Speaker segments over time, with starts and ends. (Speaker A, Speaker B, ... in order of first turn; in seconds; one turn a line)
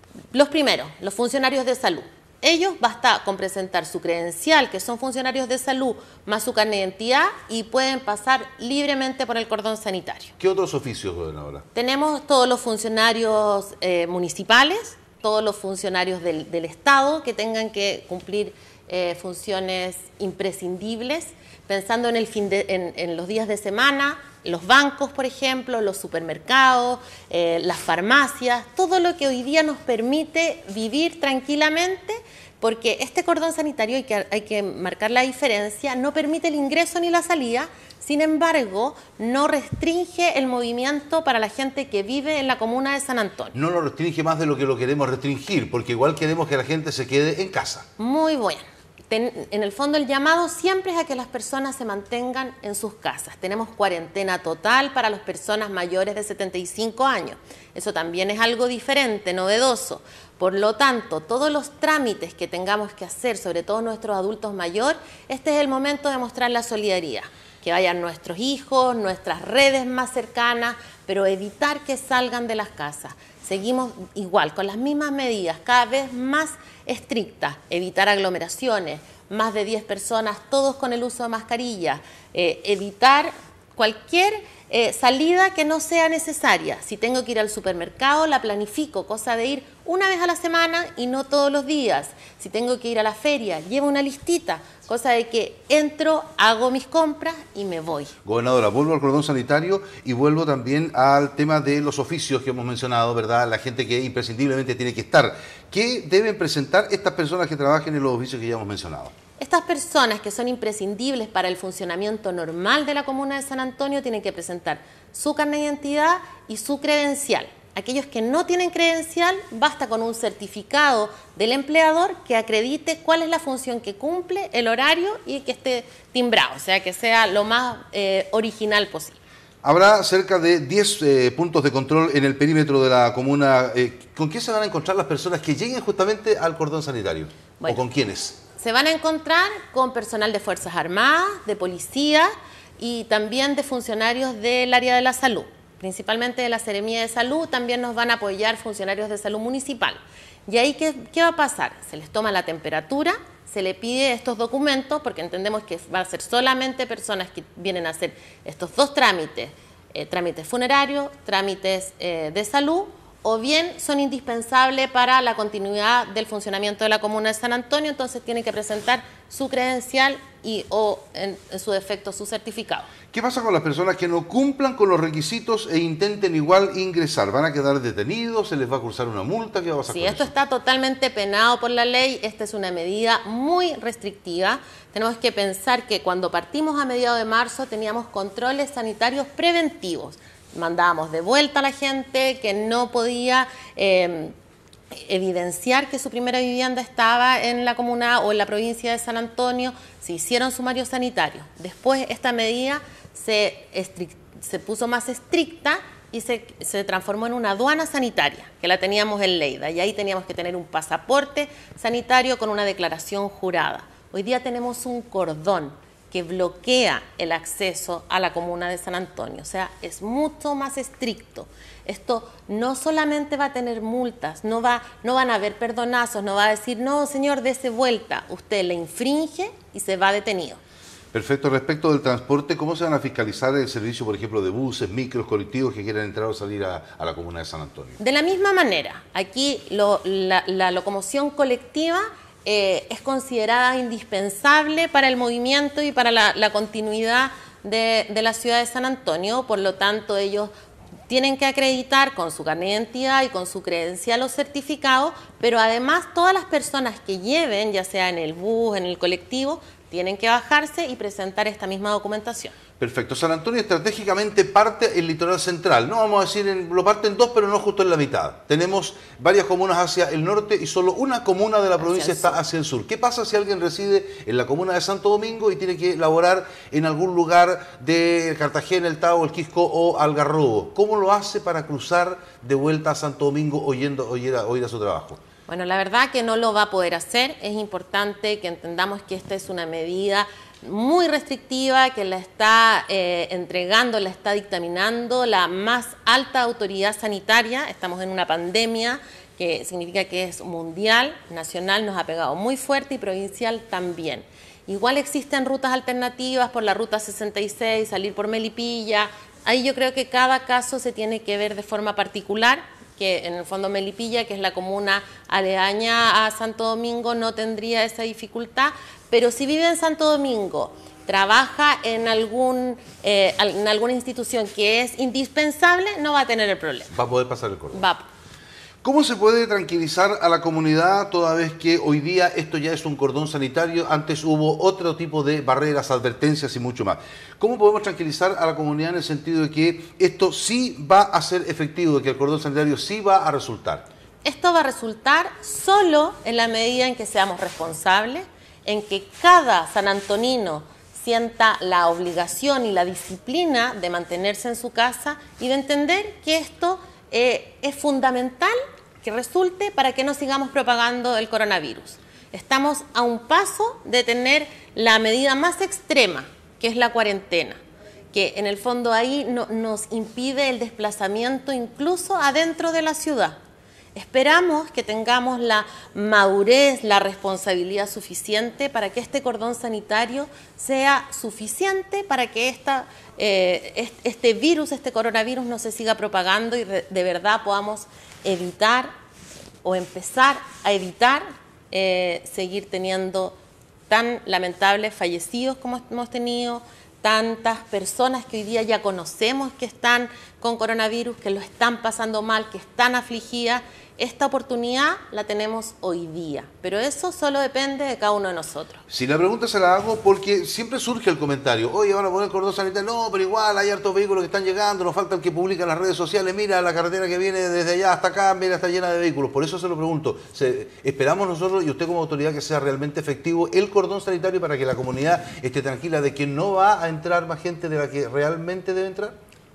Speaker A: 0.3-10.3
Speaker B: 10.4-11.7
Speaker A: 11.7-43.5
Speaker B: 43.5-47.9
Speaker A: 48.0-98.1
Speaker B: 98.2-109.1
Speaker A: 109.4-129.2
Speaker B: 129.6-138.4
Speaker A: 138.5-172.9
Speaker B: 173.1-180.3
Speaker A: 179.9-194.3
Speaker A: 194.9-230.6
Speaker B: 231.1-238.0
Speaker A: 238.0-250.5
Speaker A: 251.1-262.5
Speaker B: 262.8-285.2
Speaker A: 271.8-272.4
Speaker A: 285.5-326.9
Speaker B: 326.9-327.8
Speaker A: 327.7-328.1
Speaker B: 328.8-343.9
Speaker A: 344.2-367.6
Speaker A: 368.1-373.4
Speaker A: 373.9-388.9
Speaker A: 389.6-393.3
Speaker A: 393.9-408.8
Speaker B: 408.9-429.2